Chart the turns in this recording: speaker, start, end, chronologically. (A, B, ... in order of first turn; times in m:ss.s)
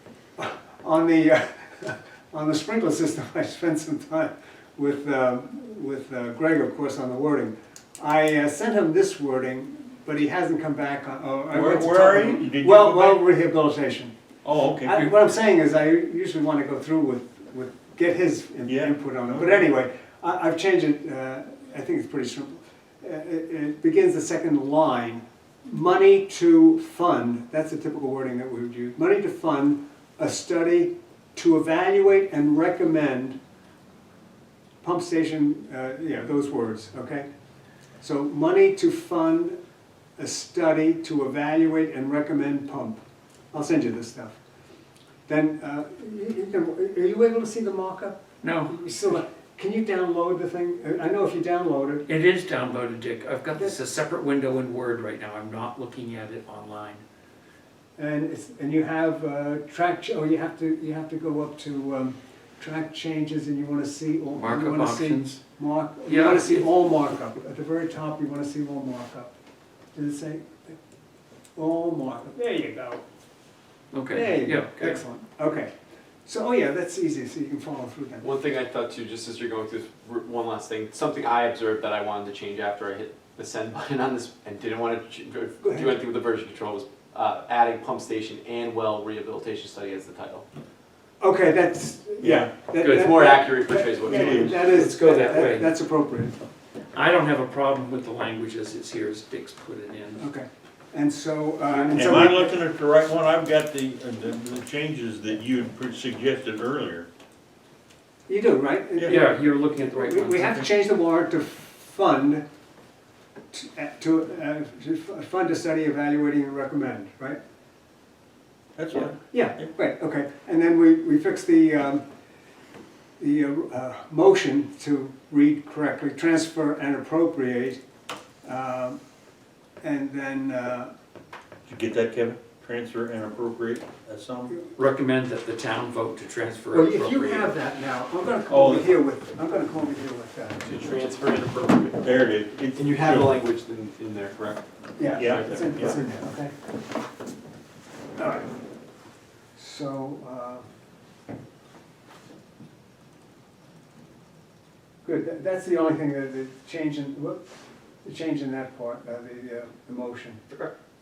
0:00.4-0:14.1 A
0:11.5-0:13.2 B
0:14.4-0:15.1 B
0:14.8-0:33.4 A
0:18.7-0:19.6 B
0:34.8-0:37.3 A
0:38.0-0:39.6 A
0:40.2-0:43.0 A
0:43.5-0:44.4 A
0:45.3-0:52.0 A
0:48.4-0:48.7 C
0:52.1-0:57.0 C
0:53.5-0:53.8 A
0:58.0-1:09.3 A
1:04.3-1:05.4 C
1:06.1-1:06.6 C
1:09.9-1:10.8 A
1:11.6-1:13.0 A
1:13.9-1:15.0 C
1:14.1-1:15.7 A
1:16.2-1:18.2 A
1:18.2-1:30.4 D
1:25.6-1:25.9 A
1:31.2-1:36.4 A
1:32.2-1:32.5 B
1:32.8-1:33.1 C
1:32.9-1:35.3 D
1:34.1-1:34.6 B
1:34.7-1:35.7 C
1:36.9-1:40.2 C
1:40.2-1:42.5 A
1:41.9-1:47.1 B
1:48.3-1:52.4 A
1:49.1-1:50.7 C
1:53.5-1:57.4 A
1:58.8-1:59.7 B
1:59.0-2:02.0 A
2:03.2-2:07.8 A
2:08.4-2:09.0 A
2:09.8-2:10.9 A
2:11.7-2:14.6 B
2:14.8-2:17.5 C
2:16.7-2:20.6 A
2:18.5-2:19.0 B
2:20.6-2:22.1 D
2:22.0-2:23.3 B
2:22.7-2:24.6 D
2:25.0-2:26.5 A
2:25.1-2:25.5 D
2:25.2-2:26.0 B
2:28.2-2:28.5 A
2:29.6-2:30.6 A
2:35.0-2:37.5 A
2:38.0-2:40.4 A